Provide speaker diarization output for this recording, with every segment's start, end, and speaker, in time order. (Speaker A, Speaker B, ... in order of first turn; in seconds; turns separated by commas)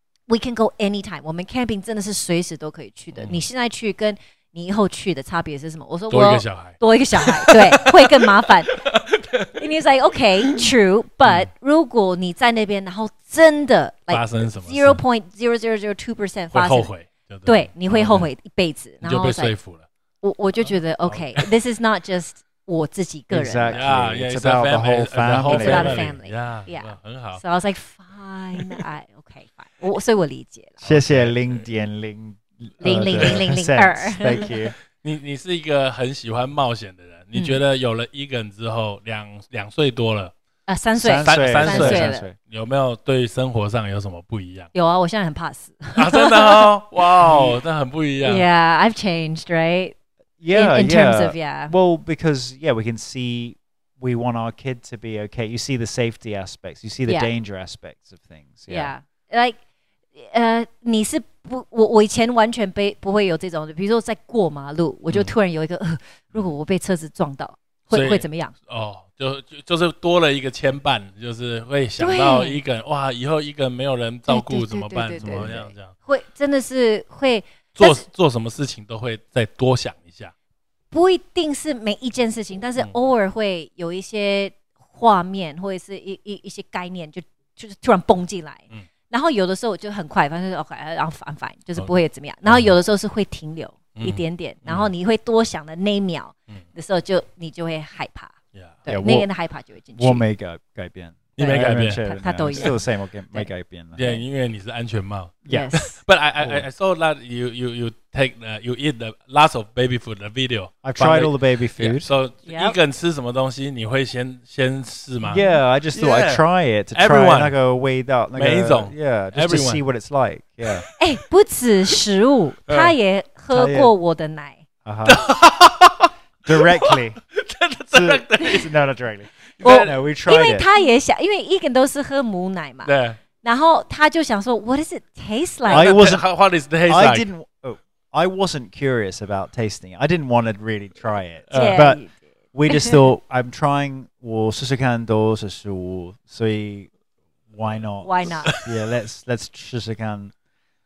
Speaker A: 0.3-8.8, Speaker B: 3.1-3.4, Speaker B: 6.1-9.8, Speaker A: 9.6-16.9, Speaker B: 10.4-10.7, Speaker B: 14.1-15.0, Speaker B: 16.5-18.3, Speaker A: 17.4-19.5, Speaker B: 19.0-19.9, Speaker A: 20.2-23.8, Speaker B: 20.6-21.5, Speaker C: 23.3-26.1, Speaker B: 23.7-27.4, Speaker A: 25.4-30.8, Speaker C: 30.8-34.8, Speaker B: 30.8-31.6, Speaker A: 32.8-34.5, Speaker B: 32.9-33.4, Speaker B: 35.0-40.3, Speaker A: 37.3-37.6, Speaker A: 40.7-42.3, Speaker C: 40.9-42.4, Speaker B: 41.2-44.7, Speaker A: 44.7-47.4, Speaker B: 46.0-48.5, Speaker C: 47.2-47.5, Speaker A: 48.2-49.9, Speaker C: 50.4-58.9, Speaker A: 50.5-51.7, Speaker A: 58.7-59.6, Speaker A: 60.1-68.5, Speaker B: 65.1-65.3, Speaker B: 67.9-75.9, Speaker A: 72.0-72.6, Speaker A: 74.3-78.0, Speaker C: 75.2-75.6, Speaker B: 77.8-80.3, Speaker A: 80.9-98.3, Speaker B: 92.5-92.7, Speaker B: 94.0-94.9, Speaker B: 98.5-98.8, Speaker A: 98.8-100.2, Speaker C: 98.9-99.3, Speaker C: 100.0-104.2, Speaker B: 101.4-102.7, Speaker A: 101.4-102.8, Speaker B: 104.0-116.4, Speaker A: 105.5-106.0, Speaker C: 106.4-106.7, Speaker C: 110.8-112.1, Speaker A: 112.5-112.8, Speaker C: 115.2-120.8, Speaker B: 116.9-117.5, Speaker B: 118.3-119.8, Speaker B: 120.7-120.9, Speaker A: 121.0-124.6, Speaker B: 122.7-122.9, Speaker C: 123.5-123.9, Speaker C: 124.8-125.2, Speaker B: 125.0-128.8, Speaker C: 126.4-127.2, Speaker C: 127.9-130.7, Speaker B: 129.6-129.9, Speaker A: 129.6-135.9, Speaker B: 132.8-133.2, Speaker B: 135.7-137.3, Speaker C: 135.7-136.2, Speaker C: 136.8-142.0, Speaker B: 141.5-141.8, Speaker A: 141.5-142.2, Speaker C: 142.5-146.9, Speaker A: 142.7-143.1, Speaker C: 147.5-150.3, Speaker A: 148.0-148.6, Speaker B: 148.5-148.8